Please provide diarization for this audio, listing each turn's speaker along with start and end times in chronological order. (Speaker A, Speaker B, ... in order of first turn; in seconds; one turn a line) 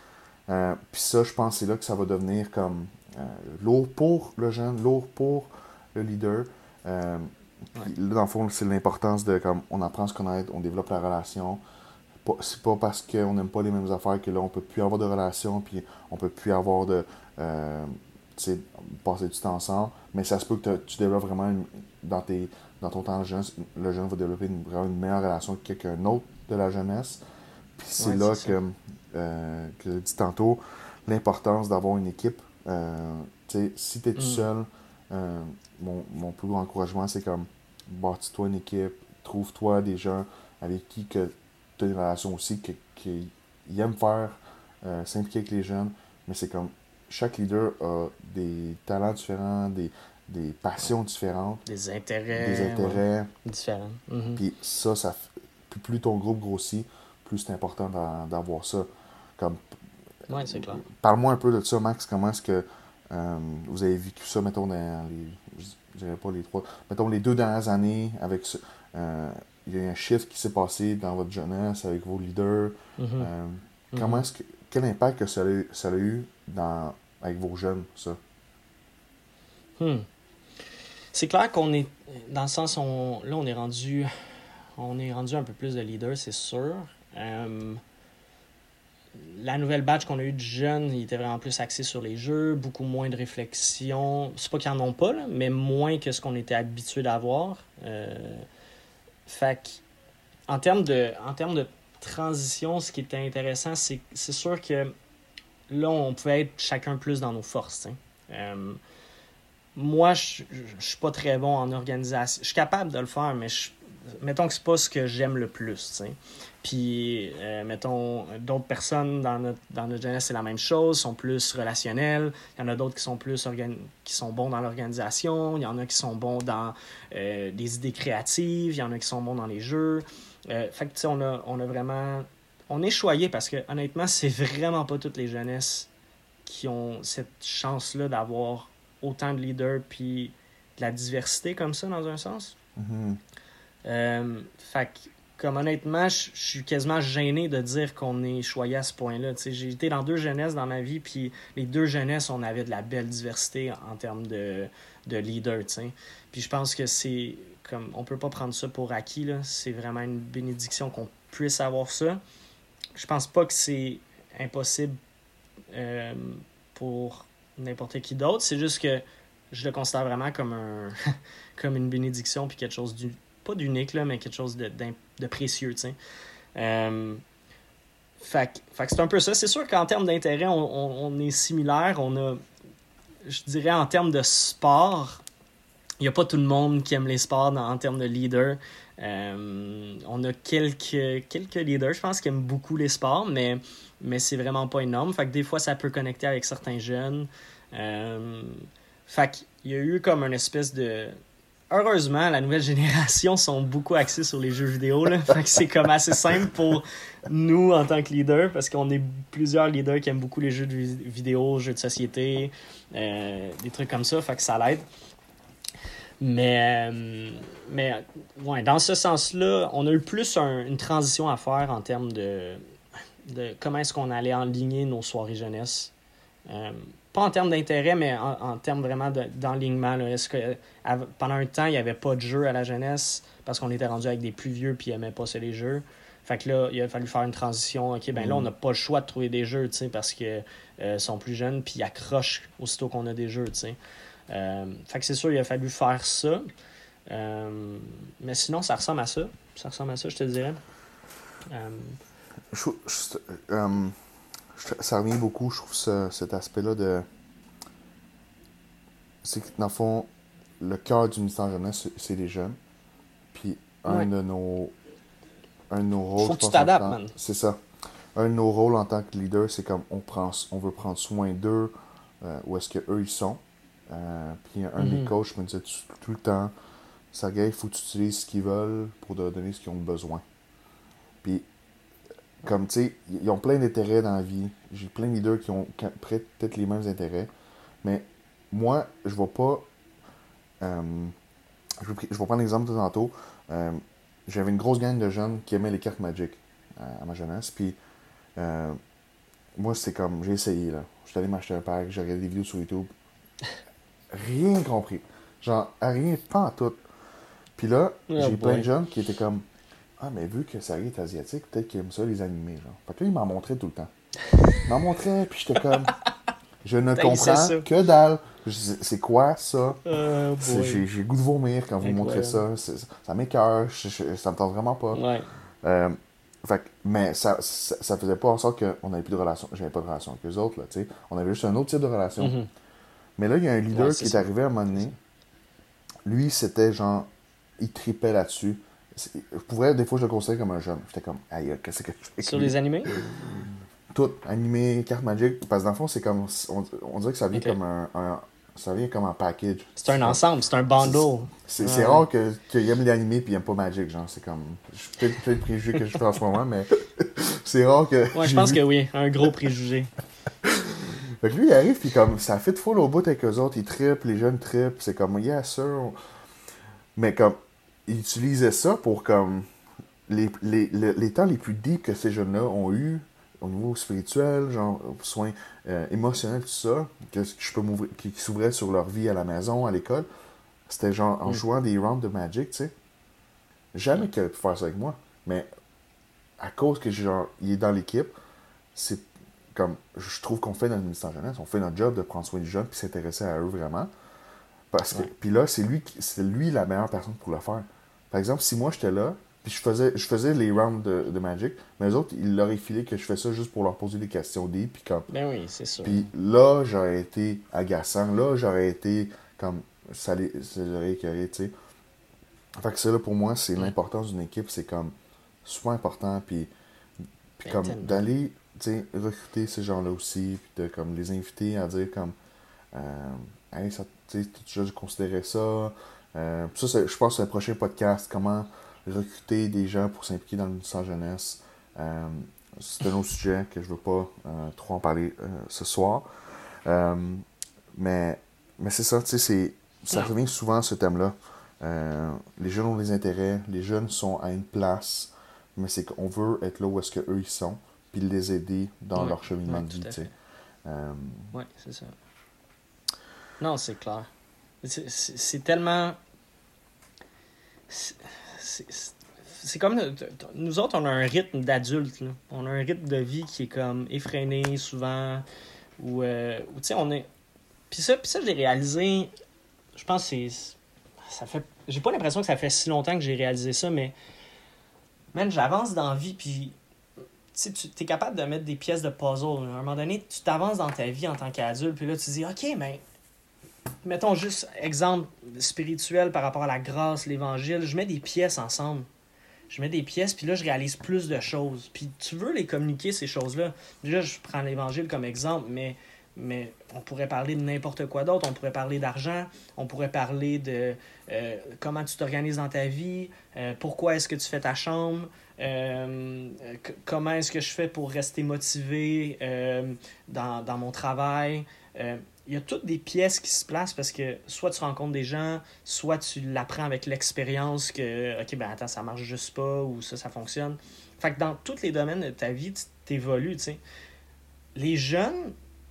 Speaker A: 0.5-11.6
Speaker A: 12.2-27.2
Speaker A: 27.8-51.6
Speaker B: 28.0-28.5
Speaker B: 34.1-34.5
Speaker B: 51.6-54.4
Speaker A: 52.3-53.3
Speaker A: 54.4-59.6
Speaker B: 60.3-60.8
Speaker A: 60.4-78.2
Speaker B: 73.0-73.3
Speaker B: 73.9-74.2
Speaker B: 79.8-80.0
Speaker B: 81.1-84.1
Speaker B: 84.8-87.8
Speaker B: 89.1-98.4
Speaker B: 99.3-99.8
Speaker B: 100.5-104.9
Speaker B: 105.7-108.8
Speaker B: 109.7-135.9
Speaker B: 136.4-142.5
Speaker A: 142.8-143.2
Speaker B: 143.8-162.2
Speaker B: 162.9-165.0
Speaker B: 165.7-175.9
Speaker B: 176.5-177.2
Speaker B: 178.2-182.4
Speaker B: 183.2-185.2
Speaker B: 186.0-201.2
Speaker B: 201.7-214.8
Speaker B: 216.2-222.6
Speaker B: 223.2-225.9
Speaker B: 226.5-243.8
Speaker A: 238.1-238.5
Speaker B: 244.3-246.5
Speaker B: 247.1-250.6
Speaker B: 251.5-252.0
Speaker A: 252.5-253.9
Speaker A: 254.5-257.1
Speaker A: 259.2-260.1
Speaker A: 260.6-262.6
Speaker A: 263.3-264.7
Speaker A: 265.7-267.6
Speaker B: 266.2-267.1
Speaker A: 268.1-276.5
Speaker B: 274.8-275.1
Speaker A: 277.1-280.2
Speaker A: 282.4-287.3
Speaker A: 287.8-289.6
Speaker A: 290.6-291.1
Speaker A: 291.8-297.8
Speaker A: 298.4-298.8
Speaker A: 299.6-302.9
Speaker A: 304.1-306.8
Speaker A: 307.6-309.4
Speaker B: 308.1-308.7
Speaker A: 310.0-313.9
Speaker A: 314.6-315.9
Speaker A: 316.6-319.8
Speaker B: 316.9-317.6
Speaker B: 319.9-320.8
Speaker A: 320.4-325.0
Speaker B: 321.8-322.4
Speaker B: 324.9-325.3
Speaker A: 325.6-332.4
Speaker B: 332.2-332.5
Speaker A: 333.2-334.9
Speaker B: 333.7-334.3
Speaker A: 336.0-350.2
Speaker B: 342.2-342.9
Speaker B: 349.8-352.1
Speaker A: 350.8-358.6
Speaker B: 358.1-359.9
Speaker A: 360.4-365.9
Speaker A: 366.9-369.5
Speaker A: 370.1-380.1
Speaker A: 380.7-382.7
Speaker A: 383.7-385.5
Speaker A: 386.4-388.1
Speaker A: 388.7-393.9
Speaker A: 394.7-405.1
Speaker B: 405.1-406.0
Speaker A: 405.8-411.5
Speaker A: 412.6-414.9
Speaker A: 415.4-416.5
Speaker A: 417.4-422.1
Speaker B: 417.4-418.1
Speaker A: 422.7-436.1
Speaker A: 436.6-450.1
Speaker B: 448.9-450.1
Speaker A: 450.6-451.3
Speaker B: 451.3-451.9
Speaker B: 453.4-454.1
Speaker B: 454.6-456.0
Speaker B: 457.7-465.2
Speaker B: 465.8-467.1
Speaker B: 467.7-469.1
Speaker B: 469.7-470.6
Speaker B: 471.1-473.9
Speaker B: 475.1-476.6
Speaker B: 477.3-482.8
Speaker B: 483.8-488.9
Speaker B: 489.5-523.6
Speaker B: 524.5-525.3